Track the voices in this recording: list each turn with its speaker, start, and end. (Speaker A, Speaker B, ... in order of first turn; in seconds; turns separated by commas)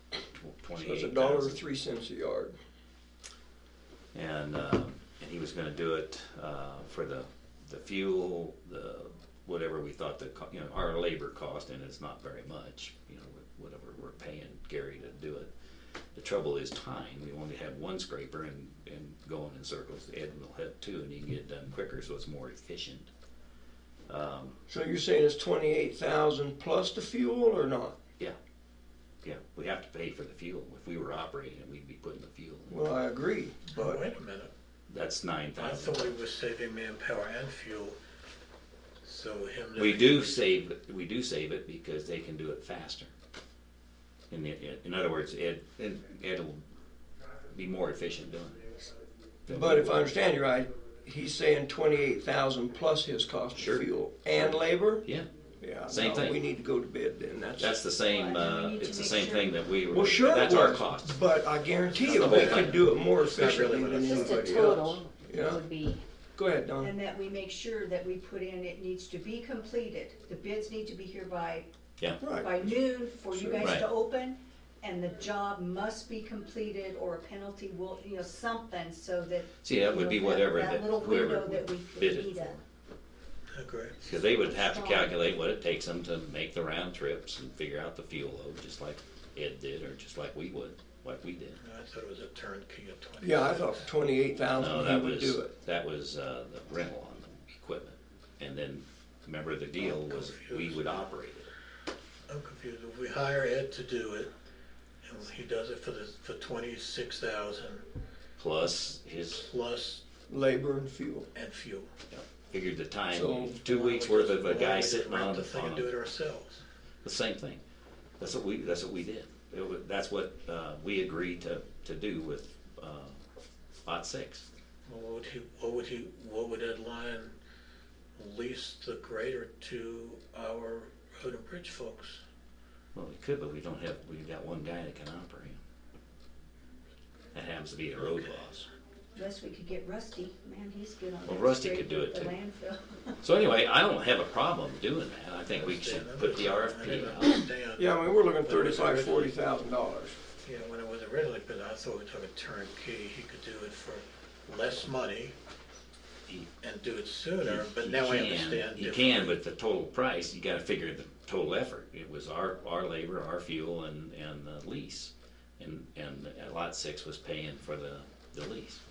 Speaker A: 0.3-1.6, Speaker B: 0.7-2.5, Speaker A: 4.1-15.5, Speaker A: 16.1-23.1, Speaker A: 24.1-24.6, Speaker B: 24.7-28.0, Speaker A: 29.2-32.8, Speaker B: 32.7-34.0, Speaker C: 33.8-34.5, Speaker A: 34.9-36.1, Speaker C: 35.6-38.0, Speaker C: 39.0-40.4, Speaker A: 39.8-43.1, Speaker A: 44.3-46.6, Speaker A: 47.5-48.9, Speaker A: 49.5-50.0, Speaker B: 49.5-55.0, Speaker A: 53.5-55.3, Speaker B: 55.6-57.8, Speaker A: 55.9-56.4, Speaker A: 57.6-63.0, Speaker D: 58.1-59.5, Speaker B: 59.9-65.6, Speaker C: 62.3-64.6, Speaker E: 64.0-66.0, Speaker B: 66.3-66.9, Speaker D: 66.8-71.7, Speaker B: 72.2-72.7, Speaker D: 72.3-82.6, Speaker B: 73.3-73.8, Speaker A: 79.6-82.6, Speaker C: 83.5-84.0, Speaker A: 84.0-91.6, Speaker E: 84.7-85.1, Speaker C: 91.6-93.9, Speaker B: 93.2-95.5, Speaker A: 94.6-101.5, Speaker C: 99.8-100.9, Speaker C: 102.3-104.3, Speaker C: 105.0-107.8, Speaker A: 108.4-109.5, Speaker C: 109.4-110.0, Speaker B: 110.3-111.3, Speaker C: 111.3-111.9, Speaker A: 112.1-115.9, Speaker B: 113.1-113.6, Speaker C: 113.6-116.6, Speaker A: 117.0-117.6, Speaker A: 118.2-123.2, Speaker A: 123.8-124.5, Speaker C: 124.8-127.3, Speaker C: 128.2-132.2, Speaker A: 132.9-135.6, Speaker A: 137.3-138.7, Speaker C: 138.0-138.3, Speaker D: 139.1-143.2, Speaker A: 141.2-142.3, Speaker A: 143.2-147.5, Speaker C: 145.5-149.4, Speaker B: 147.8-150.2, Speaker C: 150.4-155.3, Speaker C: 156.6-159.3, Speaker A: 157.4-168.8